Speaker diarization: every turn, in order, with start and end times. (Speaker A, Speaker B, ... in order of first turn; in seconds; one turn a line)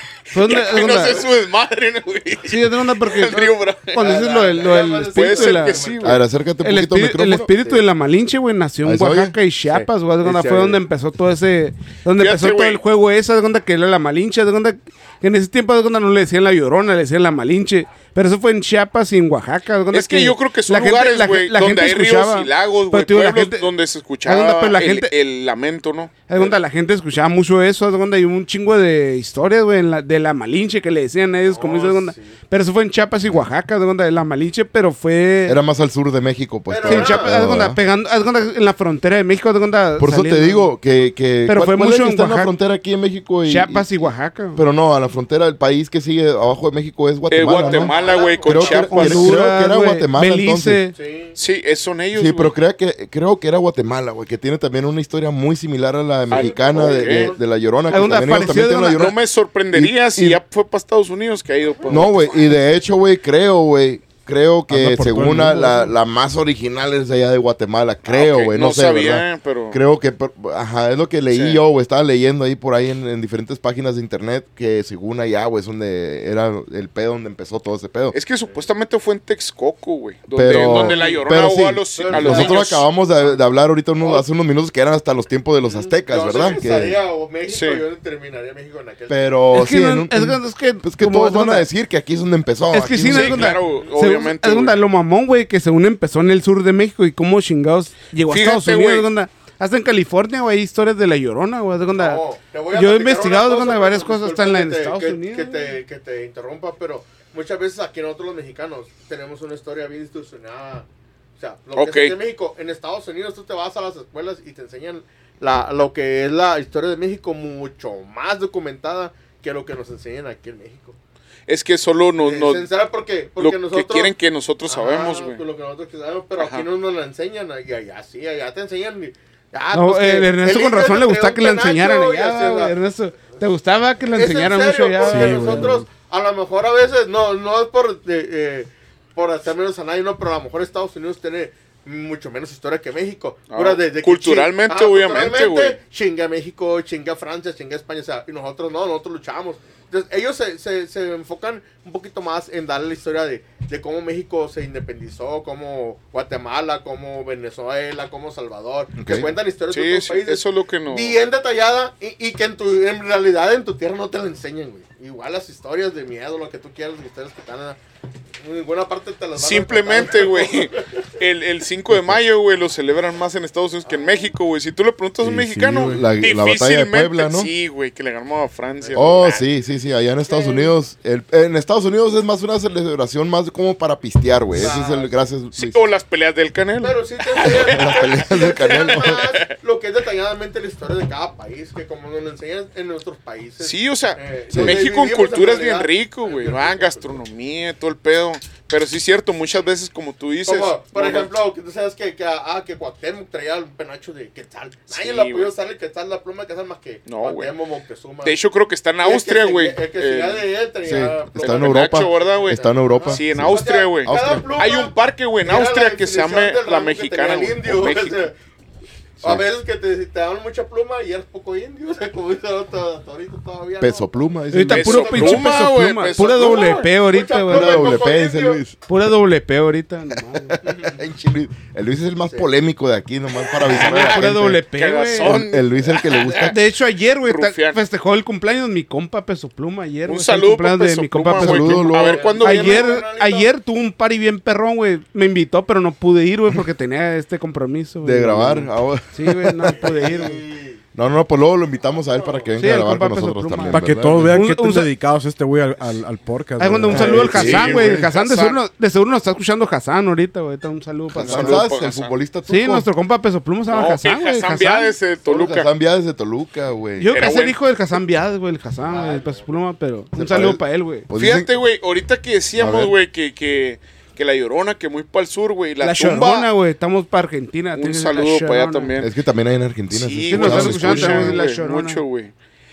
Speaker A: 0.3-1.2
Speaker B: 0.3-4.3
Speaker A: 2.4-5.8
Speaker C: 4.0-6.2
Speaker B: 5.1-6.2
Speaker D: 6.0-7.6
Speaker A: 6.6-23.7
Speaker D: 8.8-10.7
Speaker B: 12.2-12.8
Speaker B: 19.9-26.5
Speaker A: 24.2-25.1
Speaker A: 26.3-35.6
Speaker C: 31.4-32.4
Speaker D: 35.5-37.8
Speaker C: 36.7-37.3
Speaker A: 36.8-40.7
Speaker D: 40.0-50.8
Speaker A: 41.5-42.5
Speaker A: 43.4-44.6
Speaker B: 47.3-49.3
Speaker C: 47.4-49.0
Speaker A: 48.9-50.9
Speaker C: 50.9-51.4
Speaker B: 51.4-52.5
Speaker D: 52.1-59.2
Speaker B: 56.3-57.3
Speaker C: 56.3-57.4
Speaker A: 57.9-59.1
Speaker B: 58.9-62.5
Speaker D: 59.7-60.4
Speaker C: 61.7-62.1
Speaker D: 61.9-78.2
Speaker E: 64.7-65.9
Speaker B: 68.1-69.8
Speaker B: 71.3-71.6
Speaker B: 78.1-82.8
Speaker D: 80.3-87.0
Speaker C: 80.4-81.4
Speaker C: 82.0-83.4
Speaker C: 84.0-84.2
Speaker C: 85.6-89.4
Speaker B: 87.5-87.8
Speaker D: 89.1-93.6
Speaker A: 89.5-91.7
Speaker A: 92.7-105.8
Speaker B: 93.0-94.8
Speaker B: 98.3-99.1
Speaker C: 101.9-110.9
Speaker C: 111.4-121.0
Speaker B: 111.8-112.2
Speaker B: 121.5-122.7
Speaker C: 122.2-124.1
Speaker B: 123.4-125.4
Speaker C: 124.7-132.7
Speaker B: 126.3-126.7
Speaker A: 129.7-135.8
Speaker C: 134.0-167.8
Speaker E: 135.0-135.8
Speaker B: 143.5-145.8
Speaker D: 159.0-159.3
Speaker B: 159.7-161.2
Speaker C: 168.4-171.0
Speaker B: 169.3-179.4
Speaker D: 171.9-172.2
Speaker C: 173.8-174.3
Speaker D: 175.2-177.5
Speaker E: 175.7-176.1
Speaker C: 178.8-179.3
Speaker D: 178.9-185.8
Speaker C: 180.2-180.7
Speaker C: 184.5-185.1
Speaker B: 185.5-189.5
Speaker C: 186.8-197.2
Speaker D: 187.5-189.3
Speaker B: 193.6-201.3
Speaker D: 194.5-194.8
Speaker C: 200.4-208.4
Speaker B: 204.9-205.5
Speaker B: 207.1-207.5
Speaker B: 208.2-210.5
Speaker C: 209.0-218.3
Speaker D: 210.8-214.5
Speaker B: 211.3-218.2
Speaker C: 219.2-224.2
Speaker D: 223.8-225.5
Speaker A: 224.5-228.0
Speaker B: 224.7-226.9
Speaker C: 225.1-225.7
Speaker C: 226.2-228.6
Speaker D: 227.5-228.8
Speaker A: 228.9-230.6
Speaker D: 230.3-234.6
Speaker C: 230.6-231.0
Speaker B: 233.6-236.6
Speaker A: 233.7-235.4
Speaker D: 235.2-236.6
Speaker A: 236.3-250.4
Speaker B: 237.2-237.8
Speaker B: 240.1-243.0
Speaker D: 241.3-242.2
Speaker C: 241.9-243.5
Speaker D: 248.0-250.0
Speaker C: 249.7-250.8
Speaker D: 250.9-254.4
Speaker C: 251.9-252.6
Speaker A: 252.6-254.9
Speaker E: 253.7-258.1
Speaker A: 256.6-261.6
Speaker B: 256.9-258.6
Speaker D: 256.9-257.8
Speaker D: 261.1-262.9
Speaker B: 261.1-262.1
Speaker A: 262.5-264.9
Speaker B: 263.7-265.7
Speaker D: 265.2-267.1
Speaker A: 267.0-271.1
Speaker B: 267.1-267.6
Speaker C: 268.8-269.6
Speaker D: 270.1-271.5
Speaker B: 271.1-276.5
Speaker D: 272.6-272.9
Speaker A: 275.8-278.9
Speaker B: 277.7-279.1
Speaker D: 279.0-281.4
Speaker B: 279.9-282.3
Speaker A: 280.3-282.0